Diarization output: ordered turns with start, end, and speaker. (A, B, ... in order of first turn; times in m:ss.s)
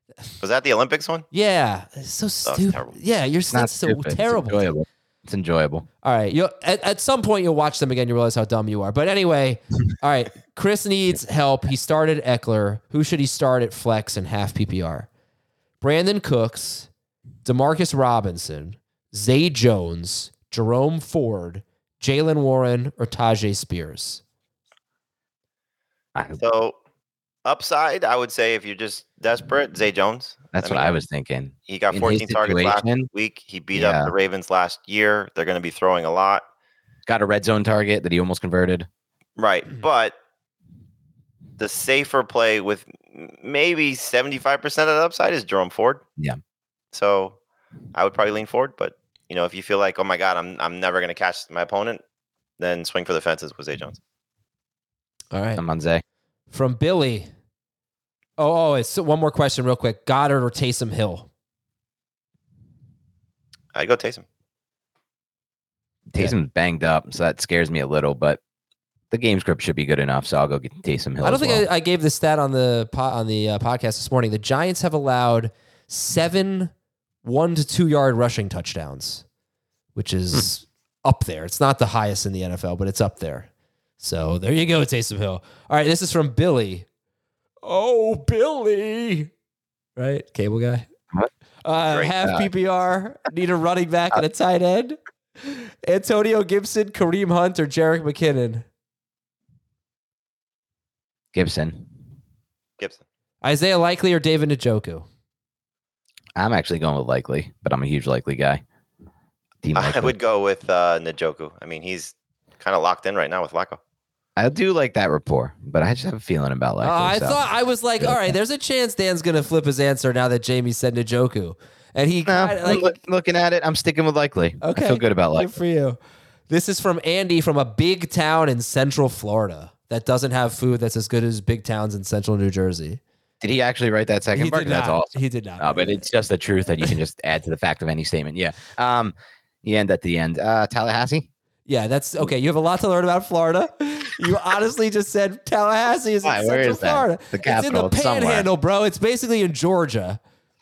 0:00.4-0:01.2 A
0:01.3-0:04.6 B
0:02.5-0:02.9 A
0:03.5-0:05.9 C
0:06.0-0:15.1 B
0:15.8-0:16.9 B
0:17.4-0:24.2 B
0:26.4-0:26.8 A
0:27.4-0:31.0 A
0:30.5-0:33.1 C
0:31.7-0:36.4 A
0:33.7-0:34.1 C
0:37.1-0:38.9 C
0:39.4-0:40.2 A
0:41.6-0:46.0 A
0:46.9-0:47.4 A
0:47.9-0:52.0 A
0:52.6-0:54.0 A
0:55.3-0:55.6 B
0:55.6-0:56.0 C
0:56.5-0:57.3 B
0:58.4-1:01.3 B
1:03.8-1:04.2 A
1:06.1-1:08.4 C
1:09.1-1:11.6 C
1:11.2-1:16.7 B
1:17.2-1:19.2 B
1:20.0-1:23.5 B
1:24.0-1:26.9 B
1:27.6-1:29.3 B
1:30.0-1:30.9 B
1:31.6-1:38.6 B
1:32.2-1:32.5 C
1:41.3-1:41.9 C
1:43.4-1:45.1 B
1:46.4-1:48.6 C
1:49.6-1:50.1 C
1:49.8-1:53.8 A
1:54.4-1:57.4 C
1:56.8-2:03.0 B
1:58.0-1:58.3 C
2:02.3-2:05.5 C
2:04.6-2:06.0 B
2:06.5-2:13.0 B
2:13.4-2:21.3 C
2:14.3-2:16.1 B
2:21.7-2:30.2 B
2:26.2-2:28.5 C